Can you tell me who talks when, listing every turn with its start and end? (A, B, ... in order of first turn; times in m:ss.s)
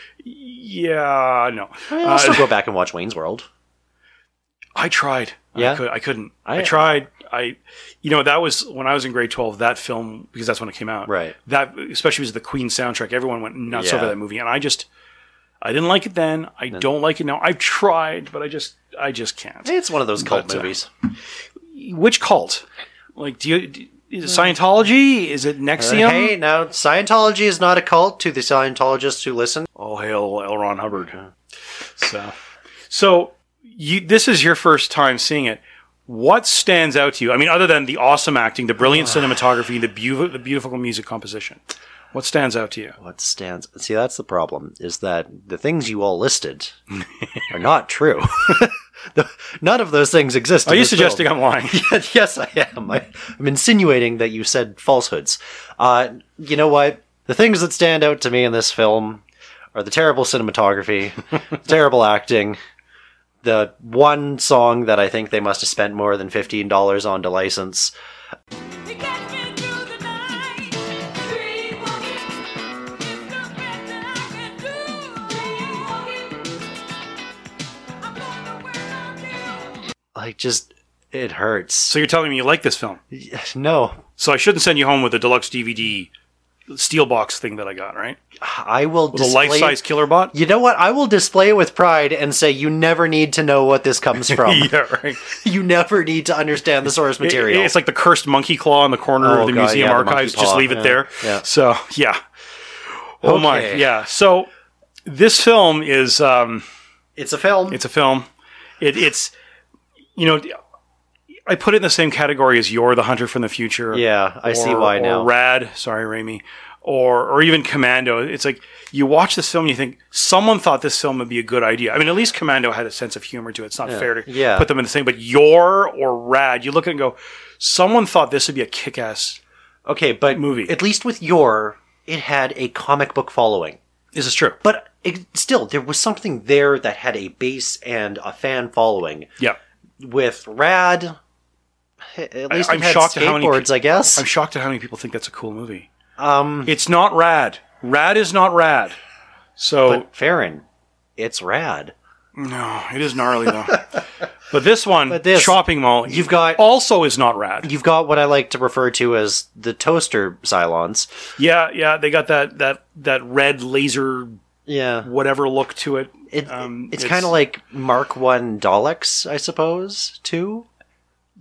0:00.2-0:02.5 A
0:01.9-0:03.5 B
0:04.8-0:14.9 A
0:05.6-0:05.8 B
0:06.4-0:06.9 B
0:11.1-0:11.4 B
0:13.7-0:14.2 B
0:15.6-0:20.8 A
0:19.6-0:20.9 B
0:21.7-0:22.6 A
0:23.2-0:26.4 A
0:25.8-0:29.7 B
0:29.8-0:31.2 A
0:31.8-0:32.3 A
0:32.9-0:41.6 A
0:42.1-0:43.0 A
0:43.0-0:46.8 B
0:47.5-0:59.2 B
0:50.6-0:51.8 A
0:59.7-1:02.6 B
1:03.4-1:07.9 B
1:08.8-1:16.7 C
1:18.1-1:19.6 C
1:20.2-1:22.0 B
1:21.9-1:23.0 A
1:23.1-1:24.0 B
1:24.2-1:26.1 A
1:26.7-1:28.2 A
1:28.4-1:37.7 B
1:29.1-1:30.4 A
1:34.3-1:35.3 A
1:37.2-1:42.2 A
1:39.2-1:41.4 B
1:43.2-1:44.5 A
1:43.2-1:43.9 B
1:45.0-1:46.6 A
1:47.2-1:47.8 B
1:47.7-1:48.3 A
1:48.8-1:49.3 A
1:50.2-1:50.6 A
1:51.5-2:09.4 A
1:53.9-1:55.3 B
2:03.9-2:04.7 B
2:09.9-2:13.8 B
2:10.3-2:10.7 A
2:14.1-2:14.6 A
2:14.6-2:19.3 B
2:20.0-2:21.2 B
2:22.1-2:24.3 B
2:22.5-2:25.9 A
2:26.2-2:26.7 B
2:26.7-2:29.0 A
2:29.6-2:30.1 A
2:29.9-2:30.6 B
2:31.2-2:31.9 B
2:32.4-2:33.9 A
2:34.5-2:37.7 A
2:35.1-2:36.6 B
2:37.6-2:41.1 B
2:41.4-2:44.4 A
2:44.7-2:45.1 B
2:45.0-2:47.3 A
2:46.3-2:50.7 B